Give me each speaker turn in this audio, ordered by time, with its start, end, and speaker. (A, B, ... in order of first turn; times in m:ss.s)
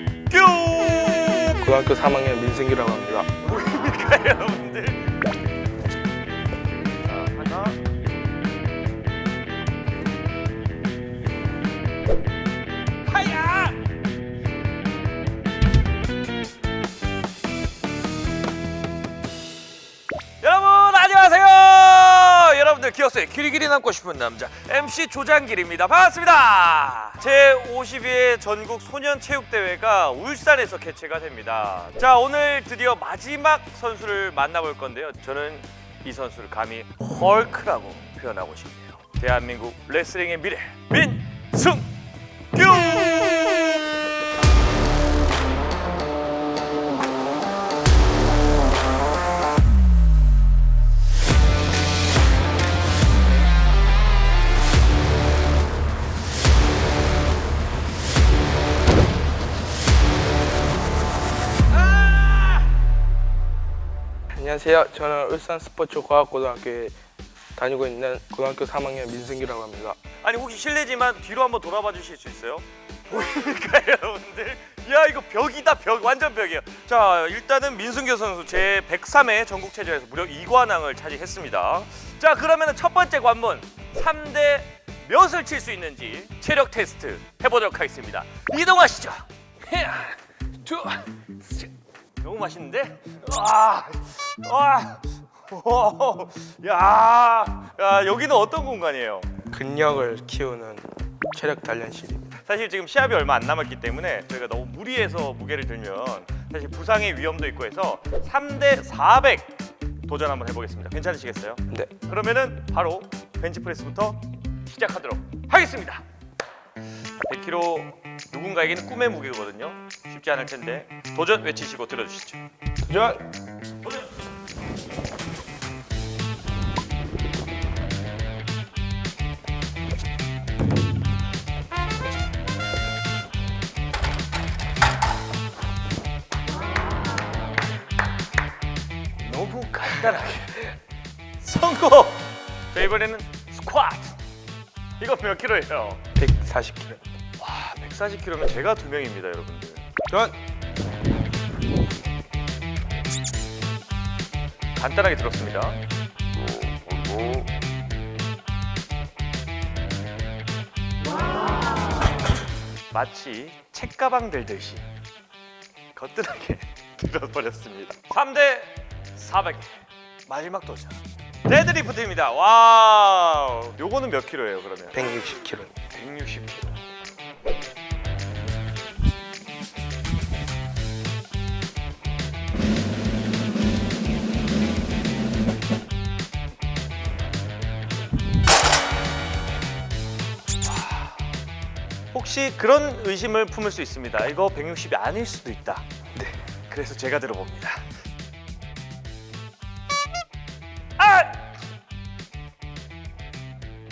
0:00.3-0:01.6 A
0:01.6-0:03.3 B
0:03.4-0:05.2 A
0:07.0-0:07.8 A
0:13.1-0:13.8 A
0:20.4-0:41.9 A
0:42.5-0:43.8 A
1:01.8-1:02.6 A
1:04.3-1:07.0 B
1:07.6-1:10.0 B
1:10.2-1:39.3 A
1:39.5-1:42.3 B
1:42.5-1:49.5 A
1:50.1-1:56.0 A
1:57.2-2:02.4 A
2:02.9-2:03.2 B
2:19.2-2:20.7 A
2:21.4-2:24.2 A
2:25.0-2:26.0 A
2:26.2-2:27.0 B
2:27.4-2:29.9 A
2:30.1-2:30.4 B
2:34.8-2:35.8 A
2:42.9-2:44.8 A
2:46.0-2:55.0 A
2:54.9-2:55.8 B
2:55.9-2:56.8 A
3:10.7-3:11.2 A
3:12.1-3:15.9 A
3:16.7-3:17.9 A
3:21.0-3:21.5 A